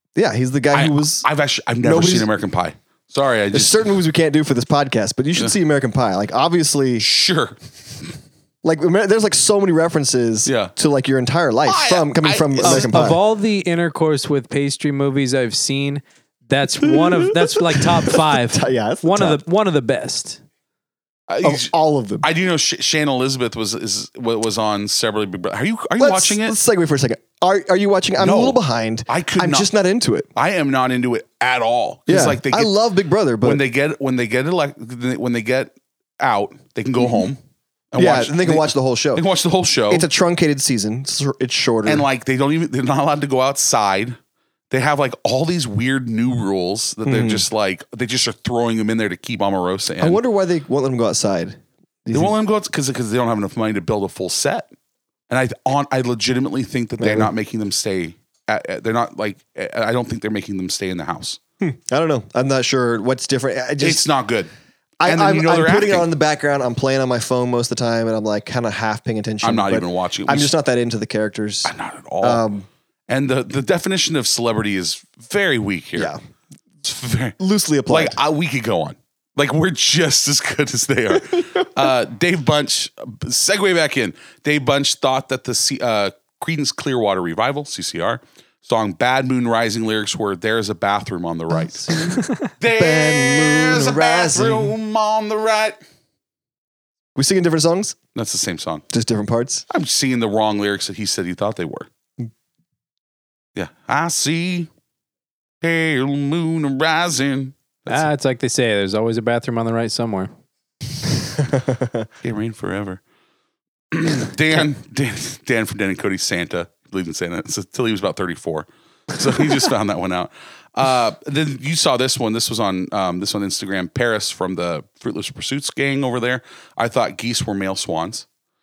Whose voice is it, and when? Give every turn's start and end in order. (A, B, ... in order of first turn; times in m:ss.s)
0:00.2-0:01.3 A
0:00.7-0:03.9 B
0:01.8-0:02.3 A
0:03.5-0:07.1 A
0:07.0-0:08.1 B
0:08.6-0:13.2 A
0:10.5-0:10.7 B
0:11.6-0:13.0 B
0:12.6-0:20.4 C
0:16.8-0:19.4 A
0:21.3-0:26.6 B
0:21.4-0:22.3 A
0:26.0-0:30.3 A
0:28.2-0:29.7 B
0:30.4-0:32.7 B
0:32.1-0:33.6 A
0:33.4-0:37.4 B
0:37.0-0:37.3 A
0:37.9-0:40.1 B
0:38.0-0:39.3 A
0:39.9-0:42.1 A
0:41.8-0:44.2 B
0:44.7-0:50.2 B
0:47.0-0:47.5 A
0:50.0-0:52.3 A
0:52.1-0:54.7 B
0:55.3-1:01.4 B
0:57.0-0:57.3 A
1:01.6-1:04.1 A
1:03.8-1:04.5 B
1:05.0-1:12.7 A
1:05.0-1:06.1 B
1:09.4-1:10.5 B
1:11.6-1:12.4 B
1:13.1-1:16.1 B
1:16.8-1:35.8 B
1:17.4-1:18.2 A
1:21.3-1:21.7 A
1:31.5-1:34.8 A
1:37.2-1:38.0 A
1:38.2-1:38.8 B
1:38.9-1:39.6 A
1:39.7-1:41.9 B
1:43.6-1:44.7 B
1:45.6-1:48.1 B
1:47.9-1:50.3 C
1:51.4-1:52.1 A
1:52.2-1:53.0 B
1:53.9-2:08.3 B